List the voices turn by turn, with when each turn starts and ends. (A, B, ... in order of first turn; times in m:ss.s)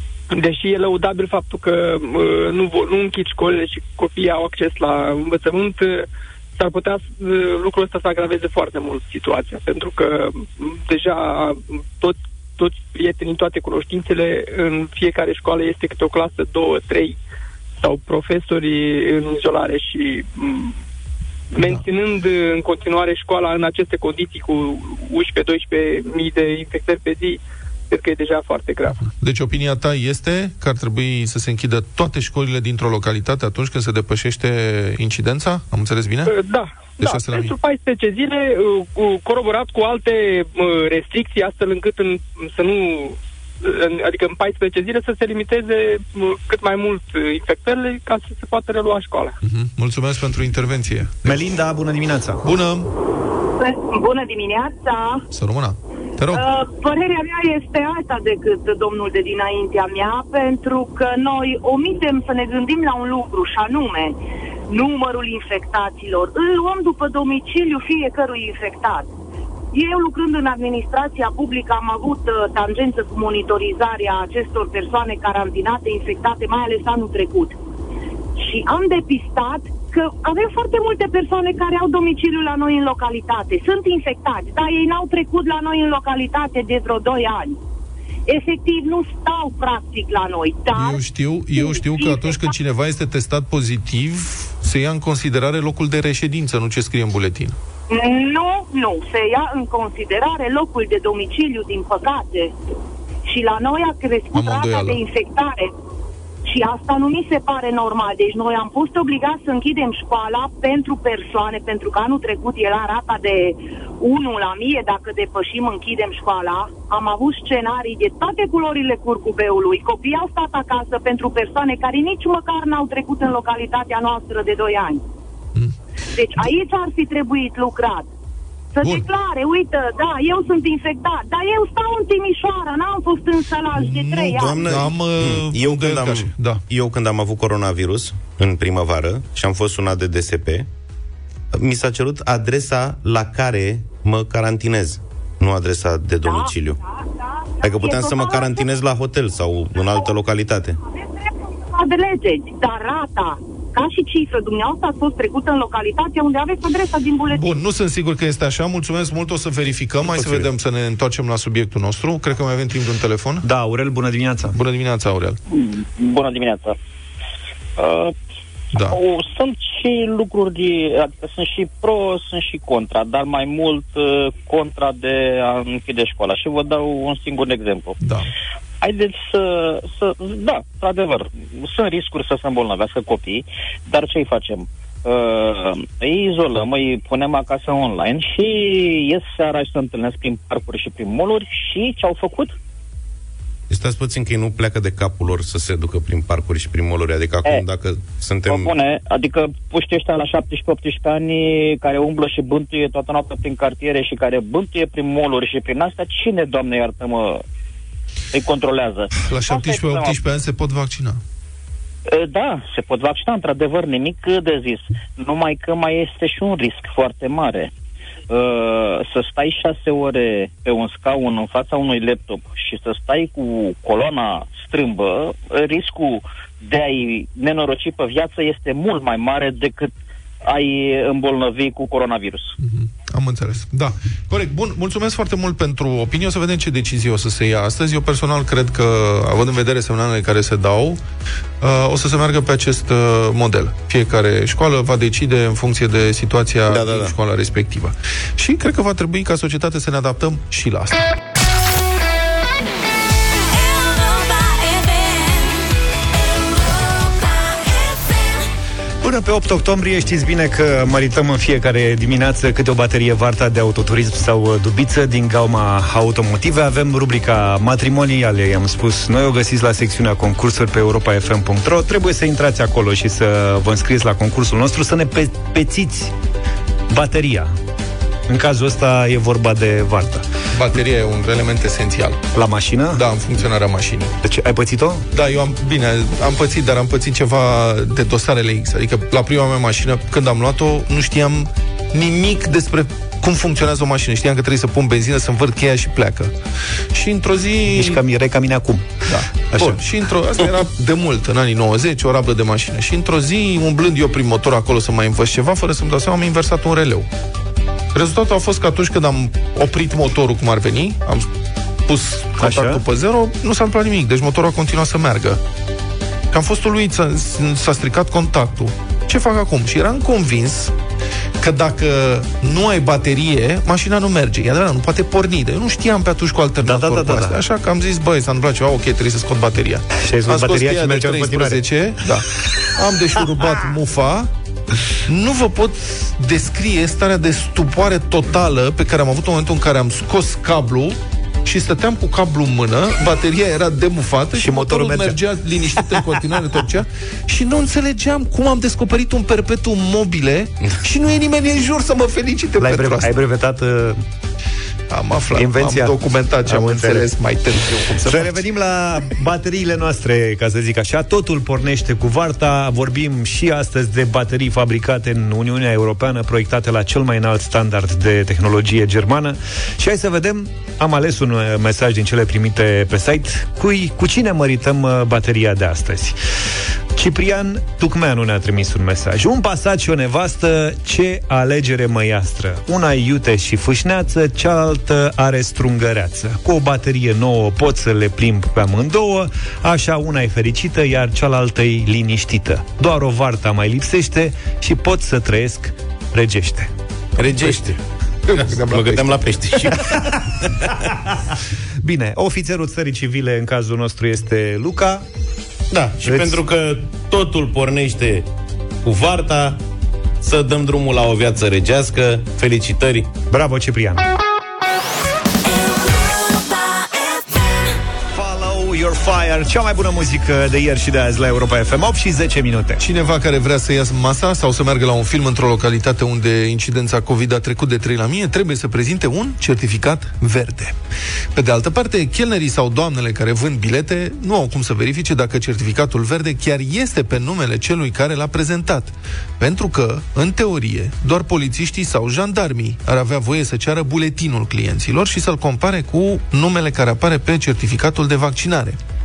0:00.3-0:17.2 A
0:17.8-0:20.8 A
0:21.5-0:29.1 A
0:29.2-0:36.3 B
0:36.3-0:49.4 A
0:37.0-0:37.6 B
0:49.4-0:51.4 B
0:51.2-0:52.4 C
0:52.4-0:52.9 B
0:53.6-0:55.3 D
0:55.3-0:56.4 B
0:56.3-1:04.2 D
1:04.7-1:09.1 D
1:09.7-1:17.6 D
1:18.4-1:27.6 D
1:28.3-1:31.0 D
1:30.7-1:37.6 B
1:31.6-1:32.5 D
1:37.9-1:42.5 D
1:43.3-1:45.7 D
1:44.3-1:45.0 B
1:46.5-2:05.0 D
2:06.1-2:08.1 D
2:08.8-2:14.6 D
2:13.7-2:16.6 B
2:14.3-2:20.7 E
2:21.5-2:26.8 E
2:26.2-2:26.5 D
2:27.5-2:28.6 D
2:27.6-2:30.8 E
2:31.0-2:37.5 D
2:37.3-2:43.4 B
2:40.1-2:40.4 E
2:43.4-2:44.6 C
2:44.5-2:45.4 B
2:45.5-2:46.8 F
2:47.8-2:48.1 F
2:48.8-2:58.0 F
2:58.0-2:58.3 B
2:58.8-3:12.5 F
3:13.7-3:18.7 E
3:18.5-3:27.4 F
3:28.3-3:30.2 F
3:29.2-3:31.2 B
3:32.1-3:37.7 F
3:38.3-3:49.9 F
3:50.4-3:52.6 F
3:52.6-4:01.0 B
4:01.6-4:11.1 B
4:06.7-4:07.1 E
4:19.0-4:36.1 C
4:36.9-4:37.6 C
4:38.3-4:40.2 C
4:40.5-4:42.2 B
4:42.3-4:43.0 C
4:42.9-4:44.1 B
4:44.2-4:45.0 C
4:45.1-4:56.3 B
4:56.9-4:58.0 B
4:57.7-4:58.9 C
4:59.1-5:07.1 B
4:59.5-4:59.8 C
5:07.9-5:11.3 B
5:11.9-5:15.4 B
5:12.4-5:12.8 C
5:16.3-5:20.7 B
5:21.4-5:34.3 B
5:26.6-5:27.4 C
5:30.0-5:31.6 C
5:35.1-5:53.1 B
5:44.4-5:45.2 C
5:52.6-5:54.0 C
5:54.9-5:58.5 B
5:55.4-5:57.1 C
5:58.1-6:16.2 C
6:17.0-6:36.7 C
6:37.2-6:37.8 E
6:38.3-6:39.2 B
6:38.4-6:40.7 E
6:41.8-6:45.0 C
6:45.7-6:48.3 E
6:46.0-6:46.4 C
6:48.8-6:49.6 E
6:50.2-6:53.1 E
6:53.3-6:54.0 C
6:58.1-7:02.8 C
7:02.8-7:10.8 B
7:11.4-7:28.8 B